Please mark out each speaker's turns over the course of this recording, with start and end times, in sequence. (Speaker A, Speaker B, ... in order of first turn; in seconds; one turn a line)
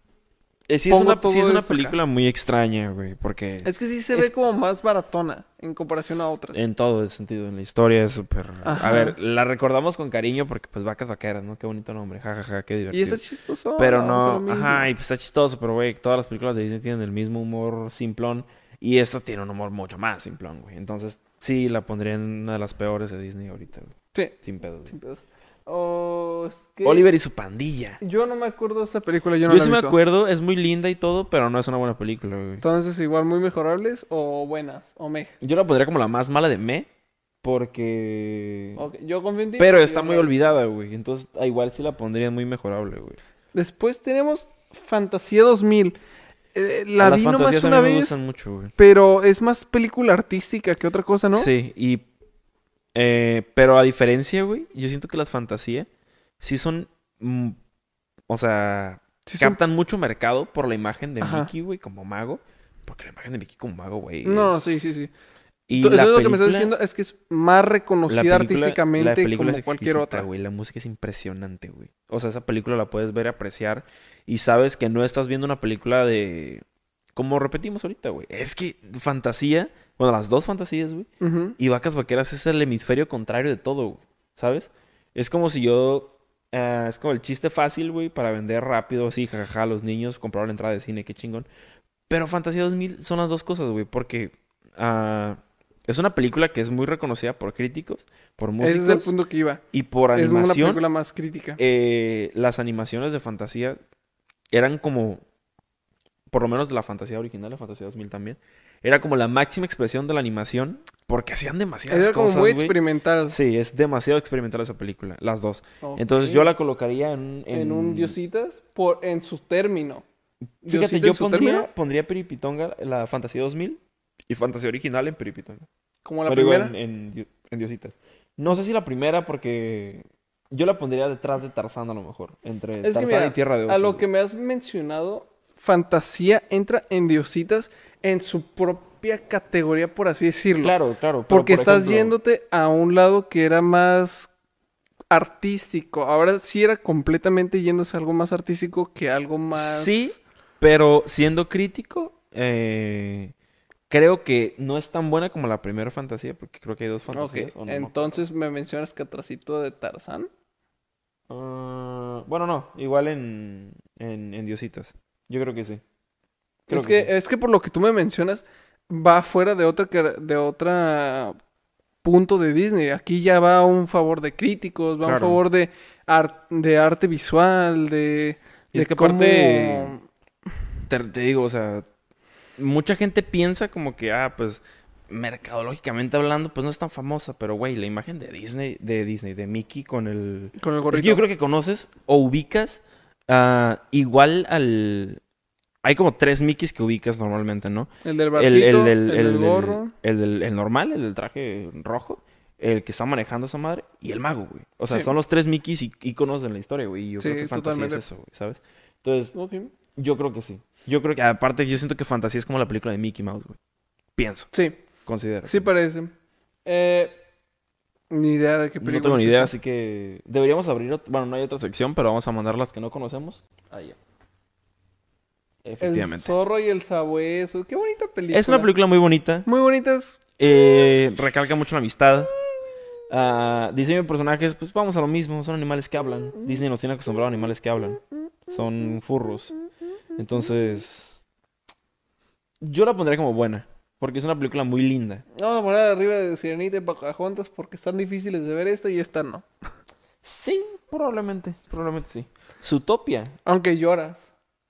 Speaker A: 0.7-4.3
Speaker B: 0.9-2.0
Speaker B: 3.6-6.6
Speaker A: 6.5-13.2
Speaker B: 8.7-9.2
Speaker B: 12.9-14.9
Speaker A: 13.8-24.9
Speaker B: 24.1-27.1
Speaker A: 26.9-28.0
Speaker B: 28.0-30.0
Speaker A: 29.5-32.6
Speaker B: 32.6-35.3
Speaker A: 35.4-36.9
Speaker A: 37.4-38.9
Speaker B: 38.8-40.4
Speaker A: 39.6-43.2
Speaker B: 43.5-46.0
Speaker B: 46.5-48.2
Speaker A: 47.0-48.7
Speaker B: 48.8-51.5
Speaker A: 51.3-52.1
Speaker A: 53.0-55.9
Speaker A: 56.4-57.6
Speaker A: 58.3-65.0
Speaker B: 59.3-59.6
Speaker B: 61.2-61.5
Speaker B: 64.2-65.1
Speaker A: 65.7-66.7
Speaker B: 65.8-70.3
Speaker A: 68.1-76.6
Speaker A: 77.2-91.5
Speaker B: 81.2-81.6
Speaker A: 92.1-99.1
Speaker B: 98.6-99.6
Speaker A: 99.7-100.8
Speaker B: 100.1-101.6
Speaker A: 101.6-103.8
Speaker A: 104.5-105.2
Speaker A: 106.3-112.8
Speaker B: 111.9-113.4
Speaker A: 113.3-118.2
Speaker B: 115.8-116.5
Speaker B: 117.5-120.0
Speaker A: 120.6-125.7
Speaker B: 120.6-121.7
Speaker B: 126.0-126.7
Speaker A: 126.3-134.0
Speaker B: 132.8-140.8
Speaker A: 140.6-142.1
Speaker B: 141.3-144.3
Speaker B: 145.1-150.2
Speaker A: 149.5-153.3
Speaker A: 153.9-158.2
Speaker B: 157.1-160.3
Speaker A: 161.3-165.8
Speaker B: 166.7-171.4
Speaker A: 166.7-167.1
Speaker B: 172.0-180.0
Speaker A: 175.0-175.4
Speaker A: 178.7-180.0
Speaker A: 180.9-181.9
Speaker A: 182.6-195.2
Speaker B: 190.6-191.2
Speaker A: 195.8-209.3
Speaker B: 198.0-199.9
Speaker B: 207.2-208.0
Speaker B: 209.3-209.7
Speaker A: 210.0-213.6
Speaker A: 214.2-214.5
Speaker B: 214.5-214.8
Speaker A: 215.1-215.7
Speaker B: 215.4-216.1
Speaker B: 216.7-217.2
Speaker B: 218.1-219.5
Speaker A: 218.8-224.0
Speaker A: 225.6-226.3
Speaker B: 225.8-228.7
Speaker A: 228.3-229.5
Speaker B: 229.5-230.2
Speaker A: 230.4-232.3
Speaker A: 233.1-239.5
Speaker B: 236.4-236.6
Speaker B: 238.5-239.0
Speaker A: 240.2-241.1
Speaker B: 240.4-240.8
Speaker A: 242.6-245.2
Speaker B: 245.3-249.5
Speaker A: 250.2-253.4
Speaker B: 253.4-254.3